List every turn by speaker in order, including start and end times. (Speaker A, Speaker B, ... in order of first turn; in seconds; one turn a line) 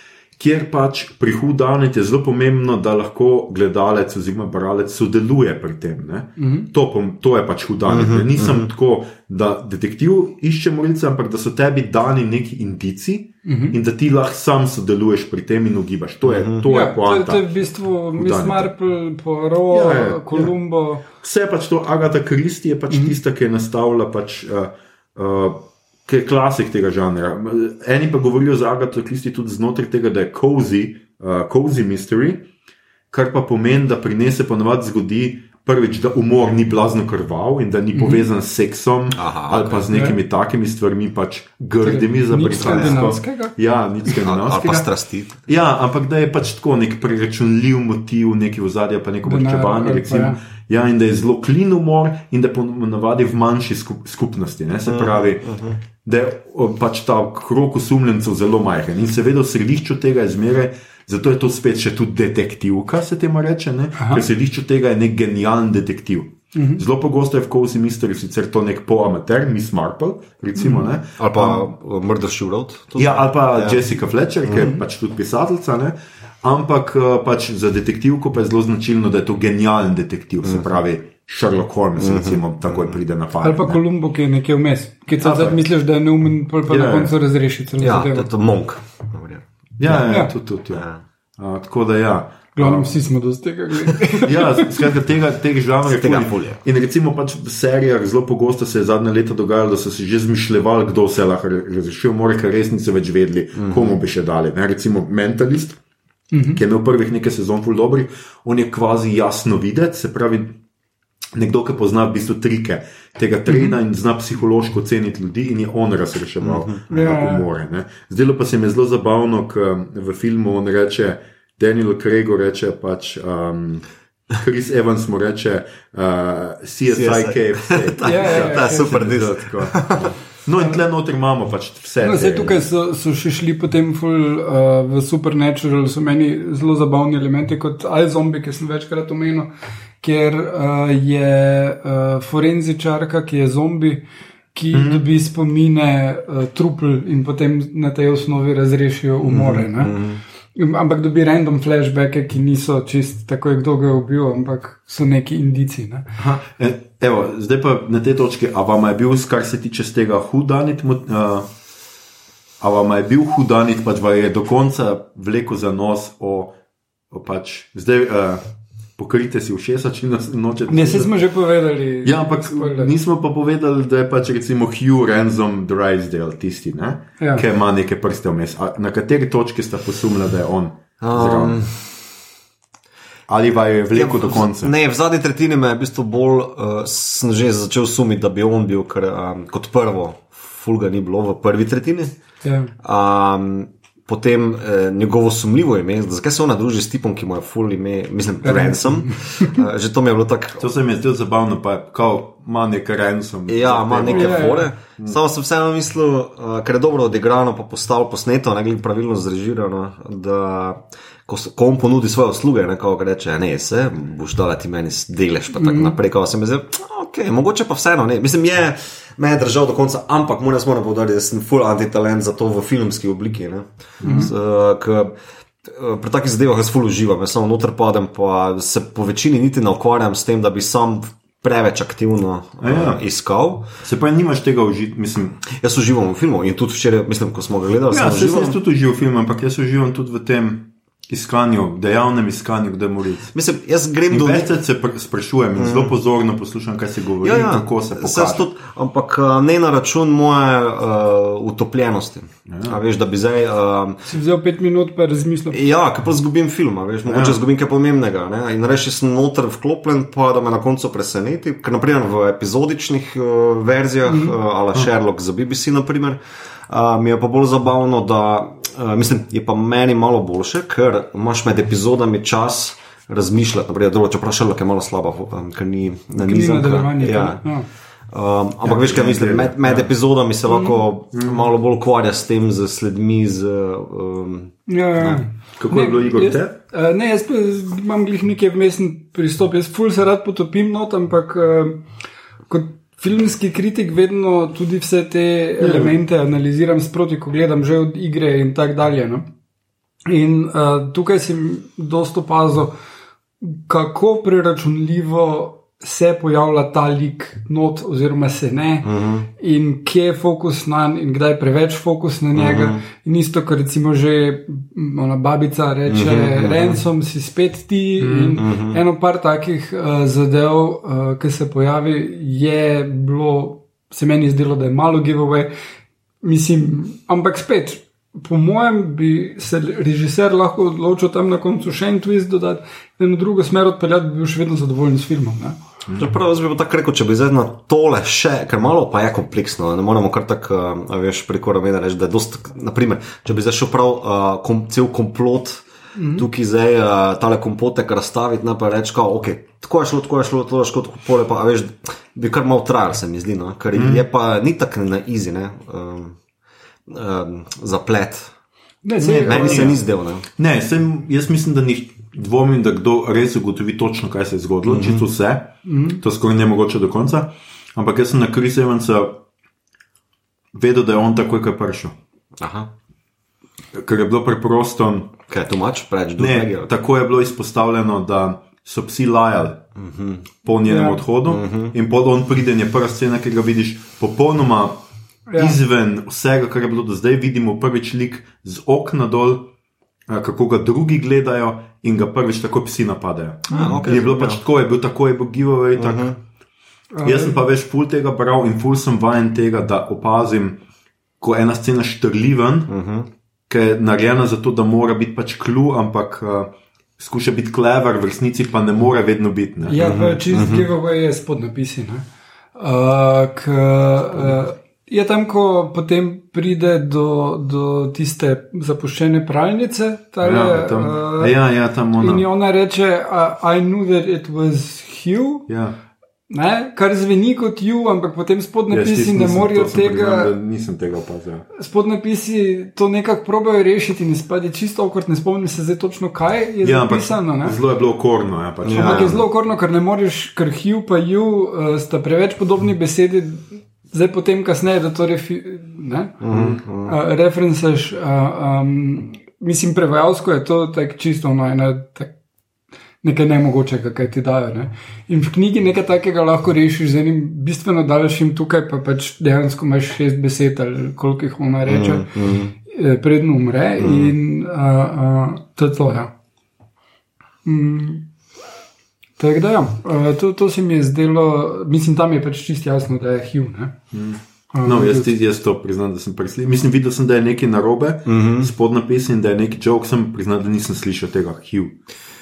Speaker A: 0.4-17.4
Speaker B: 6.4-6.7
Speaker C: 7.9-8.7
Speaker B: 13.4-13.8
Speaker C: 16.2-16.6
Speaker B: 16.6-21.0
Speaker A: 18.1-18.7
Speaker A: 19.7-20.5
Speaker A: 21.1-32.4
Speaker A: 33.1-44.9
Speaker B: 37.9-38.2
Speaker C: 39.1-39.8
Speaker B: 39.9-40.2
Speaker B: 41.8-43.5
Speaker C: 42.5-43.1
Speaker C: 44.1-45.4
Speaker A: 45.5-55.5
Speaker B: 49.2-50.4
Speaker C: 54.9-55.8
Speaker A: 56.0-71.7
Speaker B: 64.0-64.2
Speaker B: 66.5-66.8
Speaker B: 70.6-70.9
Speaker C: 71.2-73.8
Speaker A: 73.0-83.8
Speaker C: 74.5-74.7
Speaker B: 74.6-74.8
Speaker C: 80.4-80.7
Speaker C: 82.0-83.0
Speaker B: 83.4-88.3
Speaker A: 85.2-85.6
Speaker A: 86.7-87.1
Speaker C: 87.8-90.1
Speaker A: 89.8-90.8
Speaker B: 90.0-90.3
Speaker C: 90.7-91.0
Speaker A: 91.4-92.9
Speaker B: 92.6-94.8
Speaker A: 94.2-105.8
Speaker C: 95.8-96.6
Speaker C: 103.5-104.0
Speaker B: 106.3-106.6
Speaker A: 106.5-110.6
Speaker A: 111.3-132.7
Speaker B: 113.5-113.8
Speaker C: 116.4-116.8
Speaker B: 116.9-117.5
Speaker C: 126.9-130.1
Speaker B: 128.0-128.9
Speaker B: 132.0-139.5
Speaker B: 140.0-144.0
Speaker B: 144.6-149.9
Speaker A: 144.7-145.0
Speaker C: 149.2-150.2
Speaker B: 150.6-156.2
Speaker A: 156.2-161.5
Speaker A: 162.6-166.5
Speaker A: 167.1-168.4
Speaker A: 169.0-171.1
Speaker B: 170.7-172.9
Speaker A: 172.0-181.6
Speaker C: 181.0-181.9
Speaker A: 183.3-184.7
Speaker C: 183.9-192.1
Speaker B: 192.4-192.7
Speaker C: 192.8-200.7
Speaker B: 198.4-199.6
Speaker A: 200.6-205.2
Speaker C: 203.5-225.1
Speaker B: 204.1-204.7
Speaker B: 215.6-216.0
Speaker B: 224.0-224.3
Speaker C: 225.6-233.7
Speaker A: 232.6-233.0
Speaker A: 233.8-235.4
Speaker C: 235.4-238.6
Speaker A: 237.9-243.3
Speaker C: 243.3-244.5
Speaker A: 244.1-248.5
Speaker C: 245.6-245.9
Speaker C: 247.2-254.0
Speaker A: 252.5-252.8
Speaker B: 254.1-255.6
Speaker C: 255.5-277.4
Speaker A: 257.1-257.4
Speaker B: 264.1-264.4
Speaker B: 276.2-277.7
Speaker C: 278.1-285.2
Speaker A: 278.6-279.9
Speaker B: 280.5-280.8
Speaker A: 281.1-281.5
Speaker B: 284.7-291.8
Speaker A: 285.6-286.5
Speaker B: 292.5-299.2
Speaker A: 295.6-295.9
Speaker B: 300.1-302.7
Speaker B: 303.4-325.5
Speaker C: 308.8-309.3
Speaker C: 312.3-312.8
Speaker C: 315.9-316.8
Speaker A: 318.0-318.4
Speaker C: 318.4-318.8
Speaker B: 326.2-335.6
Speaker C: 335.9-356.2
Speaker B: 345.9-346.3
Speaker A: 353.7-354.1
Speaker C: 356.9-358.3
Speaker B: 358.8-359.8
Speaker A: 359.0-369.2
Speaker C: 359.2-360.2
Speaker C: 364.7-365.0
Speaker B: 365.6-366.0
Speaker A: 370.5-371.9
Speaker C: 372.4-372.7
Speaker A: 373.7-375.1
Speaker C: 375.3-376.7
Speaker A: 376.2-379.6
Speaker C: 379.8-380.3
Speaker A: 380.4-384.8
Speaker B: 380.7-381.0
Speaker C: 381.3-381.7
Speaker B: 385.3-385.6
Speaker A: 385.4-389.5
Speaker A: 390.1-396.1
Speaker B: 393.5-393.9
Speaker C: 393.5-394.4
Speaker C: 395.8-396.2
Speaker B: 396.9-397.4
Speaker A: 397.0-400.6
Speaker A: 401.2-402.7
Speaker C: 402.7-403.1
Speaker A: 403.5-409.9
Speaker B: 409.7-412.1
Speaker C: 409.8-410.7
Speaker B: 412.6-421.4
Speaker A: 420.2-422.2
Speaker B: 422.0-425.5
Speaker A: 425.5-425.8
Speaker B: 426.3-430.3
Speaker A: 428.7-431.4
Speaker B: 431.6-437.6
Speaker A: 436.6-439.2
Speaker C: 438.6-439.2
Speaker B: 438.7-446.3
Speaker C: 446.2-447.0
Speaker A: 446.3-446.6
Speaker B: 446.8-452.1
Speaker B: 453.0-466.1
Speaker C: 461.7-462.5
Speaker C: 463.8-464.1
Speaker B: 467.4-468.1
Speaker B: 469.2-473.7
Speaker A: 473.9-481.7
Speaker B: 474.5-475.1
Speaker C: 478.1-478.5